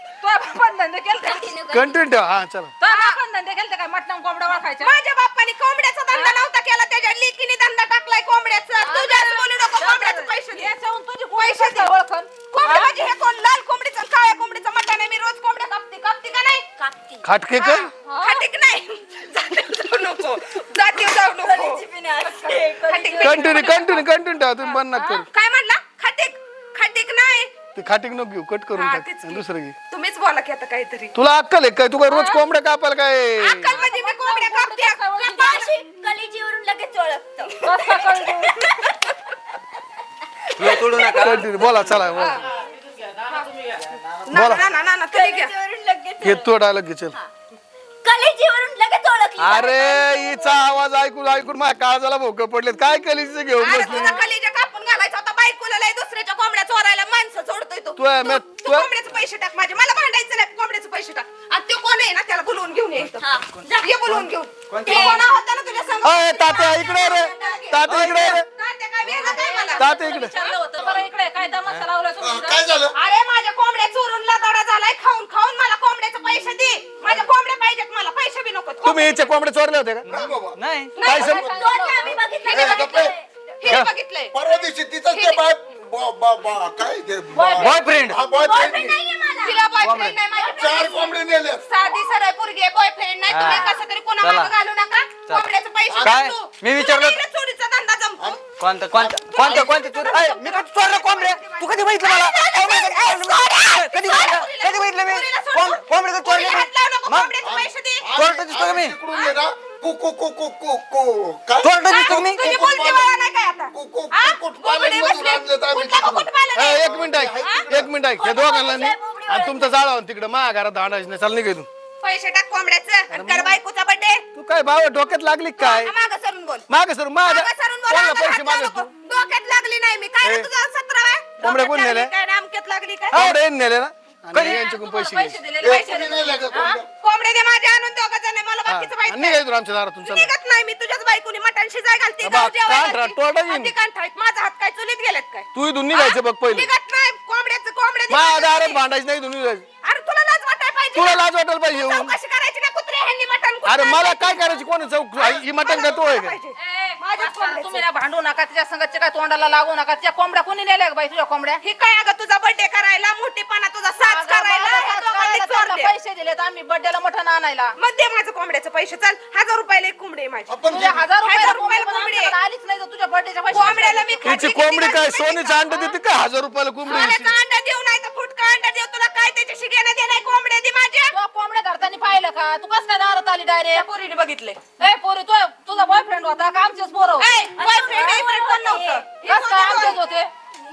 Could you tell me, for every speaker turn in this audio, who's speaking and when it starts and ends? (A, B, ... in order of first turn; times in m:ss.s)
0:00.2-0:01.9 A
0:01.7-0:02.7 B
0:02.8-0:04.9 A
0:02.8-0:03.2 C
0:04.8-0:10.7 C
0:06.1-0:06.4 A
0:08.8-0:13.0 A
0:11.4-0:11.9 C
0:12.5-0:16.6 C
0:17.2-0:17.9 B
0:17.6-0:21.8 C
0:18.0-0:18.4 A
0:21.9-0:23.0 D
0:22.8-0:24.0 C
0:23.2-0:25.3 B
0:25.2-0:27.5 C
0:27.8-0:29.8 B
0:28.8-0:31.1 C
0:31.2-0:33.8 B
0:32.1-0:32.4 A
0:33.4-0:35.7 C
0:33.7-0:35.6 A
0:35.2-0:37.5 D
0:37.6-0:38.0 C
0:37.6-0:38.6 A
0:40.6-0:42.1 E
0:40.6-0:41.1 C
0:41.1-0:42.4 B
0:43.3-0:43.8 A
0:44.3-0:45.5 C
0:44.3-0:44.6 B
0:45.1-0:46.5 D
0:46.2-0:47.2 B
0:48.0-0:50.6 D
0:49.4-0:54.2 B
0:53.6-1:09.9 C
0:58.0-0:58.9 B
1:03.0-1:04.2 E
1:04.7-1:05.3 E
1:06.0-1:08.4 B
1:07.9-1:08.4 E
1:09.2-1:12.8 A
1:09.8-1:10.3 B
1:10.4-1:11.0 C
1:12.2-1:13.0 F
1:12.9-1:19.3 C
1:18.8-1:20.2 B
1:20.0-1:20.9 E
1:20.1-1:20.6 F
1:21.0-1:24.4 C
1:21.0-1:21.6 B
1:21.2-1:22.1 A
1:21.2-1:23.1 F
1:21.6-1:23.1 D
1:23.7-1:29.0 F
1:25.1-1:25.4 C
1:27.4-1:27.7 A
1:27.6-1:28.2 E
1:28.6-1:29.6 D
1:29.4-1:31.1 C
1:29.8-1:30.2 E
1:30.5-1:31.6 F
1:31.7-1:38.4 C
1:33.3-1:34.5 E
1:35.9-1:36.2 F
1:36.0-1:37.2 E
1:38.6-1:47.4 E
1:38.9-1:39.8 F
1:39.3-1:48.0 C
1:47.4-1:58.0 F
1:48.1-1:49.0 E
1:49.1-1:49.4 C
1:51.6-1:52.4 E
1:51.9-1:56.9 C
1:56.6-2:01.7 B
1:58.2-1:59.7 D
2:02.0-2:04.2 C
2:03.1-2:03.6 B
2:04.4-2:05.9 B
2:05.6-2:06.7 C
2:06.7-2:08.9 B
2:07.2-2:13.3 C
2:10.2-2:10.5 B
2:11.4-2:12.1 B
2:13.1-2:13.4 E
2:13.1-2:15.4 B
2:14.3-2:14.6 E
2:14.4-2:16.8 A
2:15.6-2:16.9 F
2:15.7-2:16.1 C
2:16.9-2:19.4 C
2:18.7-2:20.3 B
2:20.0-2:28.8 C
2:22.2-2:23.7 B
2:25.5-2:26.7 B
2:28.1-2:29.7 B
2:29.8-2:34.6 C
2:30.9-2:32.2 B
2:33.6-2:36.4 B
2:35.2-2:37.8 C
2:36.6-2:41.6 A
2:41.6-2:45.9 C
2:44.0-2:47.7 A
2:47.8-2:50.6 C
2:50.5-2:51.1 F
2:50.7-2:54.4 A
2:51.2-2:52.3 C
2:53.5-2:55.7 C
2:54.2-2:57.4 B
2:56.9-3:01.1 C
3:01.1-3:03.9 A
3:03.7-3:04.6 C
3:04.8-3:08.3 A
3:07.2-3:10.0 C
3:09.1-3:10.3 A